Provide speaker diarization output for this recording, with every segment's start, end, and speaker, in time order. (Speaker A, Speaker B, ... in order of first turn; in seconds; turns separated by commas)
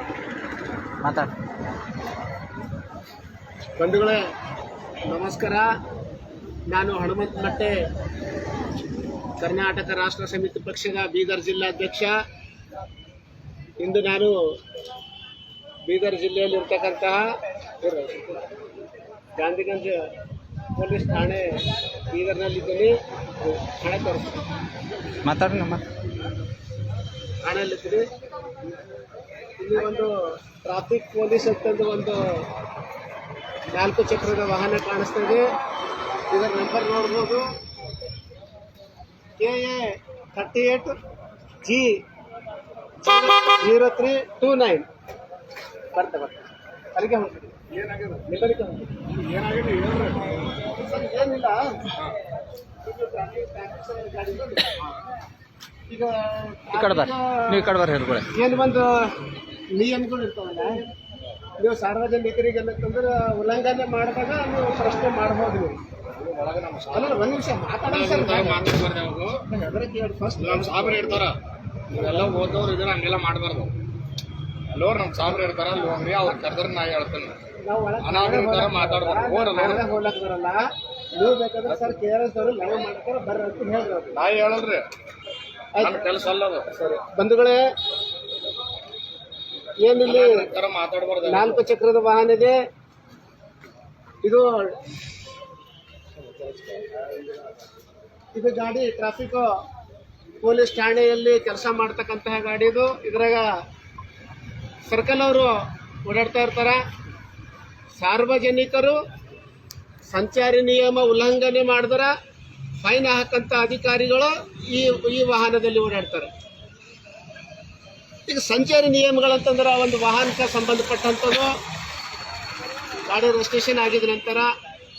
Speaker A: 1.0-1.3, Speaker B: 3.8-4.2, Speaker B: 5.1-5.7, Speaker B: 6.7-7.8, Speaker B: 9.4-12.2, Speaker B: 13.8-14.4, Speaker B: 15.9-17.2, Speaker B: 17.8-18.4, Speaker B: 19.4-20.0, Speaker B: 20.8-24.4, Speaker A: 25.2-25.8, Speaker B: 27.4-28.1, Speaker B: 29.6-32.4, Speaker B: 33.7-35.5, Speaker B: 36.3-37.5, Speaker B: 39.4-41.0, Speaker B: 41.6-42.0, Speaker B: 43.0-44.9, Speaker B: 45.9-47.5, Speaker C: 47.8-48.2, Speaker B: 48.3-49.0, Speaker C: 49.1-50.3, Speaker B: 50.6-51.6, Speaker B: 52.8-54.8, Speaker B: 55.9-57.7, Speaker A: 56.7-58.3, Speaker B: 58.3-59.1, Speaker B: 59.7-60.9, Speaker B: 61.6-65.8, Speaker C: 66.2-69.4, Speaker B: 66.9-68.7, Speaker B: 69.5-71.2, Speaker C: 70.4-71.4, Speaker C: 71.9-73.7, Speaker C: 74.7-77.4, Speaker B: 77.6-80.6, Speaker C: 78.0-79.8, Speaker B: 81.2-84.2, Speaker C: 84.1-84.9, Speaker C: 85.8-86.7, Speaker B: 86.7-87.6, Speaker B: 89.8-90.5, Speaker C: 90.0-91.6, Speaker B: 91.2-92.6, Speaker B: 94.2-94.7, Speaker B: 96.4-97.1, Speaker B: 98.3-99.5, Speaker B: 100.4-103.5, Speaker B: 104.9-106.8, Speaker B: 108.0-109.0, Speaker B: 110.1-112.1, Speaker B: 112.8-116.3, Speaker B: 118.3-121.5, Speaker B: 123.1-124.5